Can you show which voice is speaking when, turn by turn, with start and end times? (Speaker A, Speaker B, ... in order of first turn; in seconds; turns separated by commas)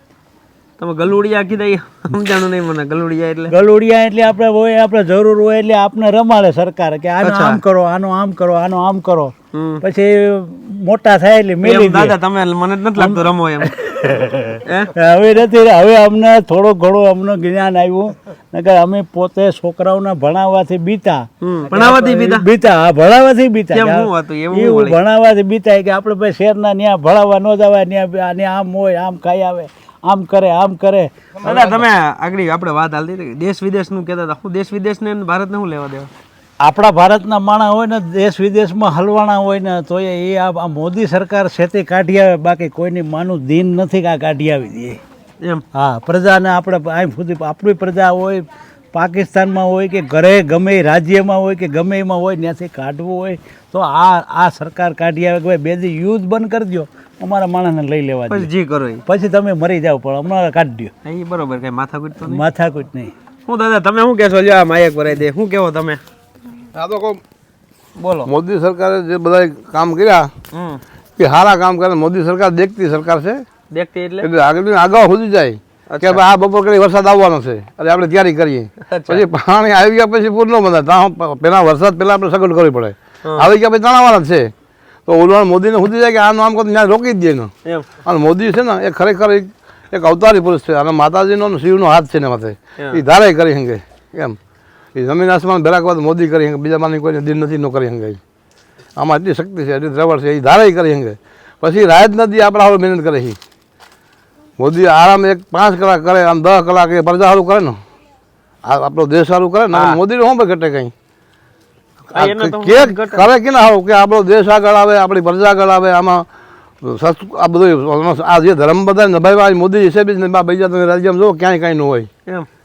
Speaker A: 0.8-3.5, Speaker B: 3.5-12.2, Speaker A: 7.2-7.6, Speaker A: 9.5-9.8, Speaker A: 11.6-13.7, Speaker B: 12.9-31.8, Speaker A: 14.6-14.9, Speaker A: 21.4-22.4, Speaker A: 23.7-25.0, Speaker A: 31.4-36.1, Speaker B: 36.6-45.0, Speaker B: 45.7-58.5, Speaker A: 58.3-59.0, Speaker B: 59.1-60.9, Speaker A: 61.0-62.4, Speaker B: 62.2-63.1, Speaker A: 63.5-66.0, Speaker C: 66.7-67.2, Speaker A: 68.0-68.3, Speaker C: 68.2-70.3, Speaker A: 70.5-70.8, Speaker C: 71.2-73.4, Speaker A: 73.7-74.3, Speaker C: 74.2-84.5, Speaker A: 75.9-76.2, Speaker A: 78.9-79.2, Speaker C: 85.1-87.5, Speaker C: 88.0-94.4, Speaker C: 94.9-98.2, Speaker C: 99.0-103.4, Speaker C: 104.6-107.8, Speaker C: 108.7-110.9, Speaker A: 109.7-110.0, Speaker C: 112.1-116.2, Speaker A: 112.1-113.3, Speaker C: 116.8-122.1